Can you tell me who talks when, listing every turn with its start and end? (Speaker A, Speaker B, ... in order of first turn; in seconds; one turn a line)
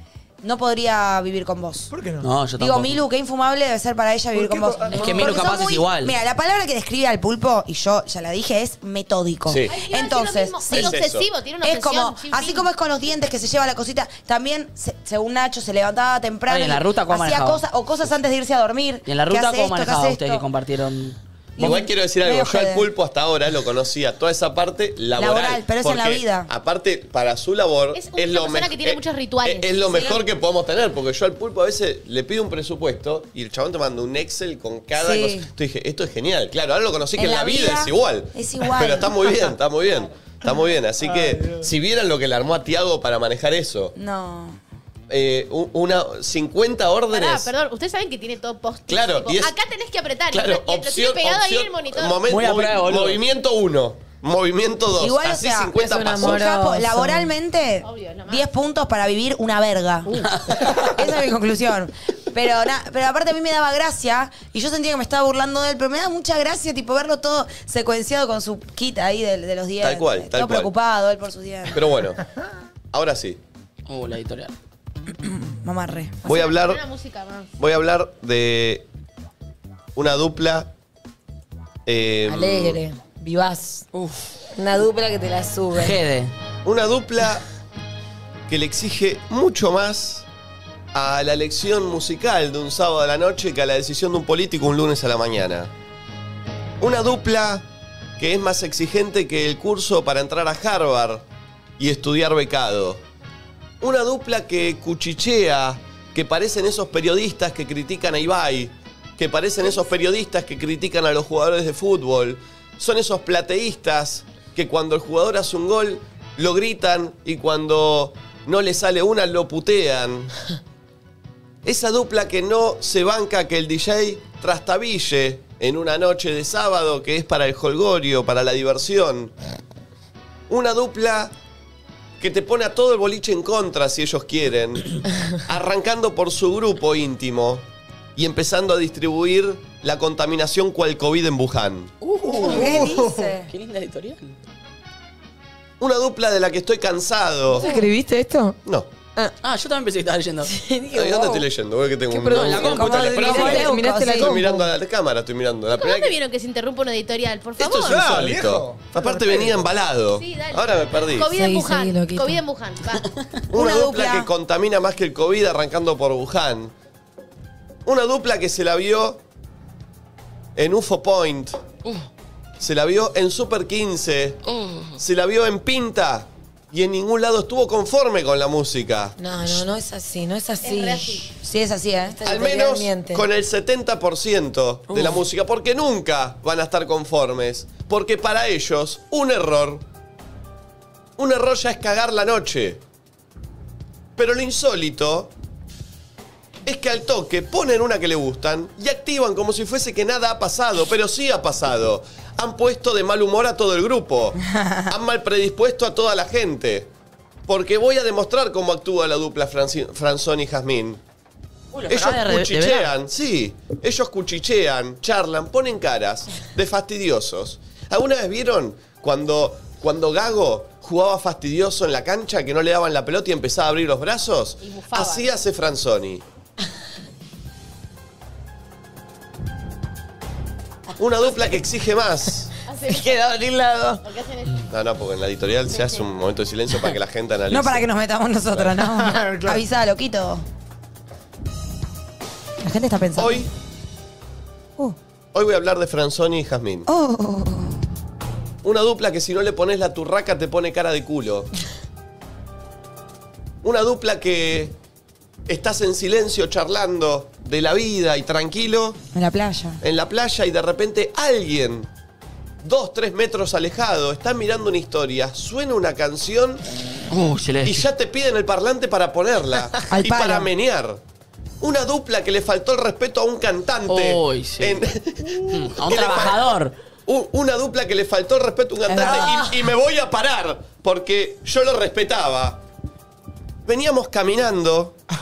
Speaker A: 0.4-1.9
Speaker B: 1.9-2.3
Speaker C: 2.2-3.0
Speaker A: 2.6-11.0
Speaker B: 4.3-5.5
Speaker C: 4.9-6.1
Speaker D: 9.5-9.7
Speaker E: 9.7-12.7
Speaker D: 10.7-11.2
Speaker A: 11.6-20.4
Speaker C: 16.5-17.6
Speaker C: 19.1-21.8
Speaker A: 21.6-22.9
Speaker D: 21.6-43.9
Speaker A: 25.2-26.5
Speaker E: 27.9-30.1
Speaker A: 34.9-35.5
Speaker A: 37.1-39.1
Speaker B: 41.0-41.7
Speaker A: 44.0-44.6
Speaker D: 45.1-47.5
Speaker E: 47.1-52.2
Speaker D: 48.9-49.5
Speaker D: 50.3-56.4
Speaker C: 52.3-53.2
Speaker A: 55.0-71.8
Speaker F: 55.8-57.3
Speaker E: 57.8-58.5
Speaker C: 60.1-60.9
Speaker D: 69.8-70.7
Speaker D: 71.7-72.2
Speaker D: 72.9-73.4
Speaker C: 73.9-74.5
Speaker A: 75.2-76.2
Speaker D: 76.2-76.8
Speaker E: 76.3-77.5
Speaker D: 77.6-78.8
Speaker D: 79.9-80.7
Speaker D: 81.8-82.8
Speaker F: 82.3-83.8
Speaker C: 83.9-84.3
Speaker F: 84.5-85.9
Speaker C: 85.7-86.3
Speaker D: 86.6-87.4
Speaker D: 88.5-90.3
Speaker D: 90.9-95.7
Speaker D: 96.8-97.7
Speaker D: 98.2-101.2
Speaker D: 101.8-103.0
Speaker D: 103.8-120.3
Speaker D: 121.6-129.3
Speaker D: 130.5-131.3
Speaker D: 132.2-137.6
Speaker D: 138.2-141.9
Speaker C: 142.0-142.9
Speaker B: 142.2-143.3
Speaker A: 142.4-143.5
Speaker C: 143.4-144.3
Speaker D: 145.8-147.7
Speaker F: 147.5-148.6
Speaker C: 149.4-150.5
Speaker F: 150.5-151.4
Speaker D: 150.9-156.1
Speaker F: 152.1-154.6
Speaker C: 152.3-153.7
Speaker A: 152.7-154.3
Speaker E: 155.7-158.1
Speaker D: 157.6-161.3
Speaker B: 157.7-159.7
Speaker E: 160.1-163.1
Speaker F: 161.3-162.4
Speaker D: 163.5-166.7
Speaker A: 163.5-164.3
Speaker D: 167.8-169.2
Speaker D: 170.6-171.6
Speaker D: 172.6-174.4
Speaker D: 174.9-179.6
Speaker F: 179.2-181.3
Speaker E: 180.6-181.3
Speaker A: 181.4-182.2
Speaker F: 182.2-183.2
Speaker D: 182.2-189.8
Speaker D: 191.2-192.8
Speaker D: 194.2-195.3
Speaker D: 196.6-206.9
Speaker D: 207.4-211.0
Speaker C: 211.7-212.9
Speaker D: 211.9-226.2
Speaker E: 224.6-225.3
Speaker D: 231.0-232.5
Speaker E: 232.7-233.3
Speaker F: 232.9-234.0
Speaker E: 234.0-234.7
Speaker D: 234.7-237.9
Speaker E: 235.7-236.1
Speaker A: 237.5-240.4
Speaker B: 238.8-239.6
Speaker A: 242.6-243.5
Speaker D: 243.1-243.5
Speaker D: 245.3-246.9
Speaker A: 246.9-247.8
Speaker D: 248.6-251.5
Speaker D: 253.6-254.7
Speaker D: 255.4-259.0
Speaker A: 259.1-259.8
Speaker D: 259.8-261.9
Speaker D: 262.6-266.6
Speaker C: 267.1-267.8
Speaker D: 267.6-271.0
Speaker A: 269.9-270.5
Speaker D: 271.6-276.5
Speaker C: 273.9-274.8
Speaker C: 275.4-276.7
Speaker D: 277.1-282.6
Speaker F: 278.9-279.6
Speaker D: 283.6-285.0